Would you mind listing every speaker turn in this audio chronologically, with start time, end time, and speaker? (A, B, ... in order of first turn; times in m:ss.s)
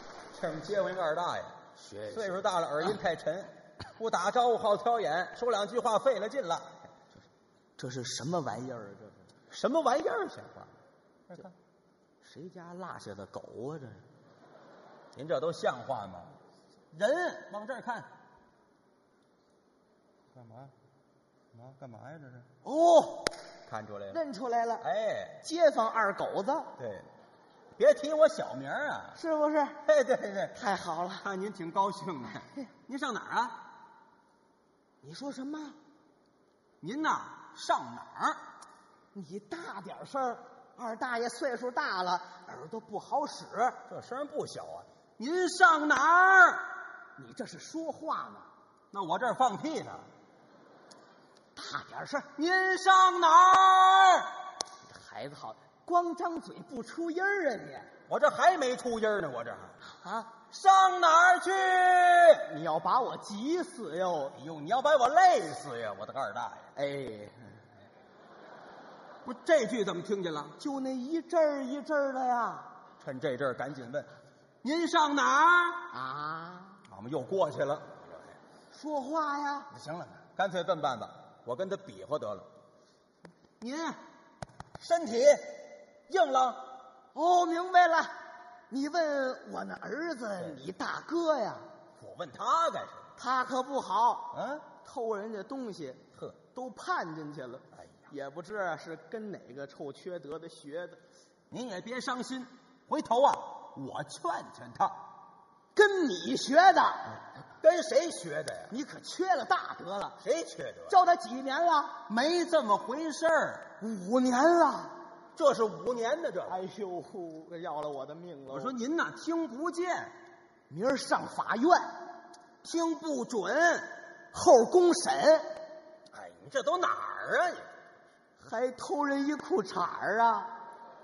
0:00.3-0:06.9 A
0:01.8-0:02.4 B
0:07.8-0:09.3 B
0:09.5-0:10.7 A
0:11.3-0:11.5 A
0:12.2-0:14.0 B
0:15.1-0:16.4 A
0:16.9-0:18.1 A
0:20.3-0:20.7 A
0:21.5-0:22.5 A
0:22.6-0:23.3 B
0:23.7-0:24.2 A
0:24.1-0:24.8 B
0:24.8-0:25.4 A
0:25.4-0:26.7 B
0:26.8-0:27.1 A
0:27.8-0:29.2 A
0:29.1-0:29.8 B
0:29.8-0:30.6 A
0:30.5-0:31.2 B
0:31.2-0:33.6 A
0:35.0-0:35.8 B
0:36.8-0:38.4 A
0:39.1-0:43.8 B
0:43.9-0:46.7 A
0:47.2-0:48.5 B
0:48.9-0:50.1 A
0:51.6-0:52.3 B
0:52.3-0:54.3 A
0:54.8-0:57.9 B
0:58.1-0:59.8 A
0:59.8-1:00.3 B
1:00.5-1:02.5 A
1:02.4-1:04.3 B
1:04.3-1:06.7 A
1:06.7-1:07.6 B
1:09.2-1:10.6 A
1:10.6-1:12.7 B
1:13.0-1:14.1 A
1:14.6-1:15.9 A
1:15.9-1:16.8 B
1:16.9-1:18.1 A
1:18.7-1:19.7 B
1:19.7-1:22.5 A
1:23.6-1:24.0 A
1:24.8-1:26.8 A
1:27.1-1:28.2 B
1:28.7-1:31.7 B
1:32.0-1:33.1 A
1:33.2-1:41.0 B
1:34.3-1:34.7 A
1:37.7-1:38.1 A
1:41.5-1:45.0 A
1:45.7-1:47.2 B
1:47.6-1:48.7 A
1:48.7-1:50.2 B
1:50.2-1:51.0 A
1:50.9-1:52.0 B
1:52.1-1:53.8 A
1:53.8-1:55.0 B
1:55.4-1:56.6 A
1:56.4-1:58.7 B
1:58.5-2:00.1 A
2:00.7-2:02.0 B
2:02.6-2:03.9 A
2:04.3-2:05.6 B
2:06.1-2:07.7 A
2:08.4-2:10.5 B